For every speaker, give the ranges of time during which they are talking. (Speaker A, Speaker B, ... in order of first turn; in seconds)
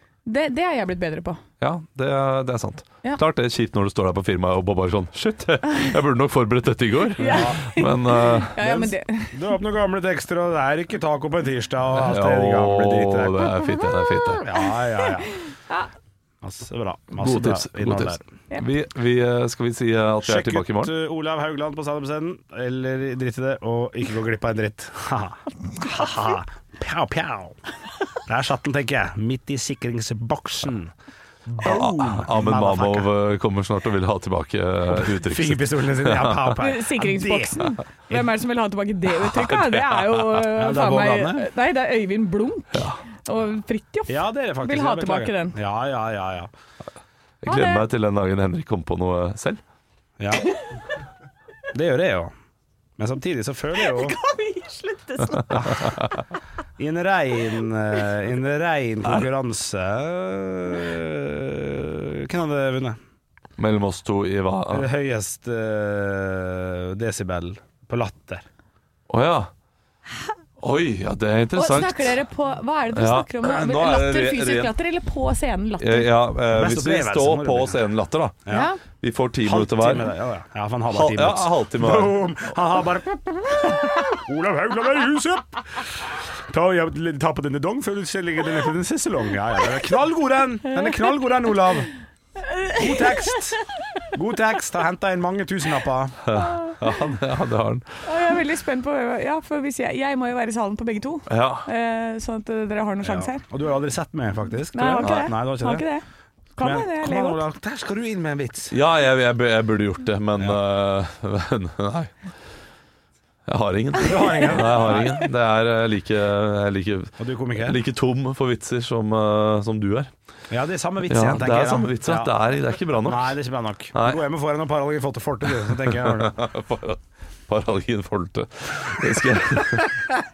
Speaker A: 0.2-1.4, 7.2-9.4, 13.6-15.9, 36.5-45.6, 47.5-47.8, 53.8-55.9, 71.5-76.2, 78.5-78.8, 92.5-93.4, 96.4-96.8, 98.0-103.4, 104.7-106.0, 106.5-107.4
Speaker B: 1.6-8.6, 12.0-14.4, 17.2-20.9, 31.5-36.5, 39.2-40.3, 42.7-43.0, 47.4-49.6, 63.6-64.9, 69.1-69.5, 70.6-72.2, 72.9-74.7, 75.8-80.1, 80.9-82.3, 96.3-97.8, 101.3-101.7, 108.7-112.1, 113.5-120.1, 121.1-123.3, 123.9-124.2, 125.9-129.9
Speaker C: 7.2-7.6, 8.6-13.5, 14.4-15.3, 16.4-18.2, 20.2-27.6, 28.2-30.9, 31.5-33.1, 34.9-37.8, 40.5-41.5, 44.1-46.5, 50.2-50.5, 51.7-52.3, 53.0-54.2, 56.8-63.0, 64.7-68.4, 76.5-77.8, 79.4-85.9, 86.5-91.9, 92.7-93.6, 94.1-96.2, 103.0-105.8, 106.6-108.7, 114.0-115.2, 117.2-117.8, 120.5-122.3, 123.0-126.3